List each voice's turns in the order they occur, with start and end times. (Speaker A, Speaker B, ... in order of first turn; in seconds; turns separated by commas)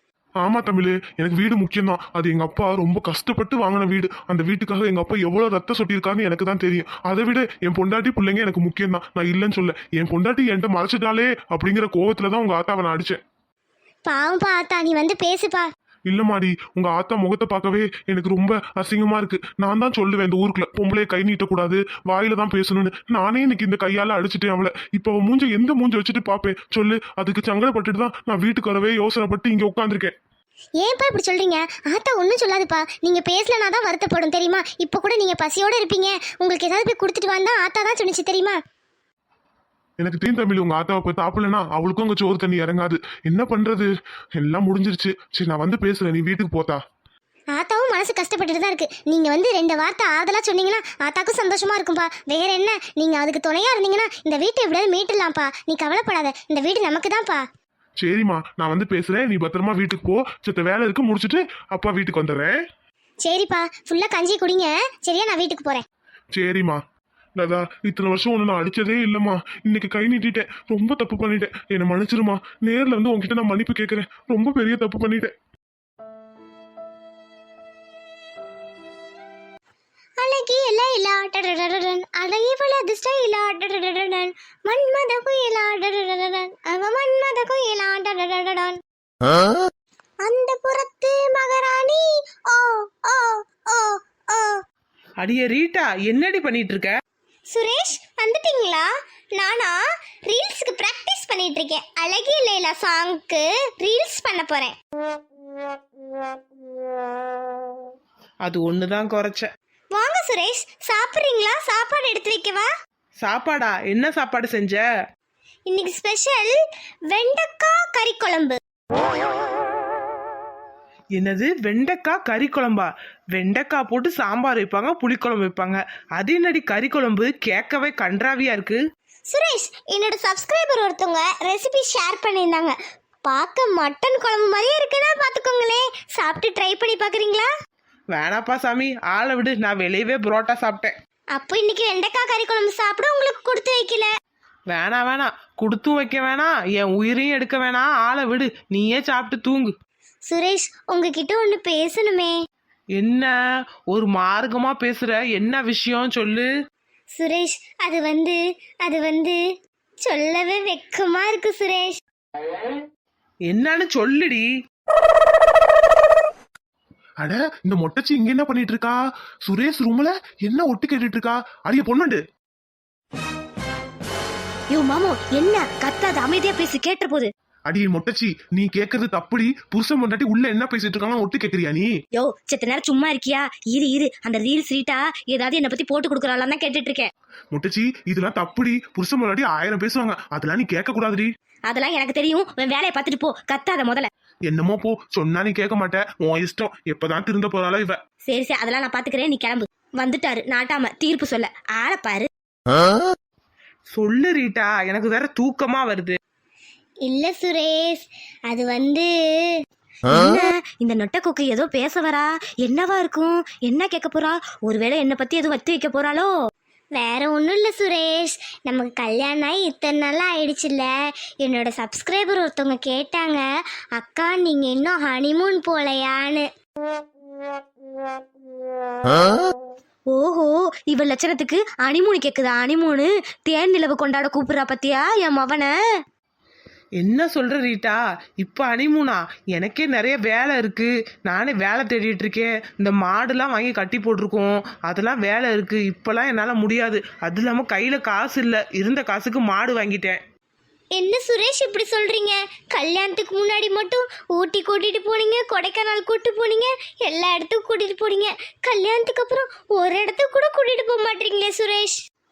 Speaker A: 0.4-13.2, Speaker B: 14.1-15.7, Speaker A: 16.1-30.1, Speaker B: 30.8-38.6, Speaker A: 40.0-46.8, Speaker B: 47.5-57.4, Speaker A: 58.0-62.6, Speaker B: 63.2-65.8, Speaker A: 66.3-66.8, Speaker A: 67.4-75.3, Speaker B: 80.2-88.8, Speaker B: 90.2-94.6, Speaker C: 95.2-97.0, Speaker B: 97.5-104.8, Speaker C: 108.4-109.5, Speaker B: 109.9-112.7, Speaker C: 113.2-114.9, Speaker B: 115.7-116.6, Speaker B: 117.1-118.6, Speaker C: 121.2-128.8, Speaker B: 129.3-137.5, Speaker C: 138.1-140.9, Speaker B: 141.3-144.1, Speaker C: 144.7-149.7, Speaker B: 150.3-152.4, Speaker C: 153.0-153.3, Speaker C: 153.9-156.5, Speaker B: 157.2-159.4, Speaker B: 160.0-162.0, Speaker C: 163.5-164.4, Speaker A: 167.2-172.2, Speaker D: 174.7-177.3, Speaker A: 177.7-181.9, Speaker D: 182.2-187.1, Speaker A: 187.5-191.3, Speaker D: 191.7-194.1, Speaker A: 194.5-198.0, Speaker D: 198.3-202.3, Speaker C: 203.9-206.2, Speaker B: 207.1-209.5, Speaker D: 210.1-216.3, Speaker B: 217.0-220.9, Speaker B: 221.4-223.4, Speaker B: 224.0-226.5, Speaker D: 230.1-235.7, Speaker C: 237.0-250.2, Speaker B: 250.9-262.0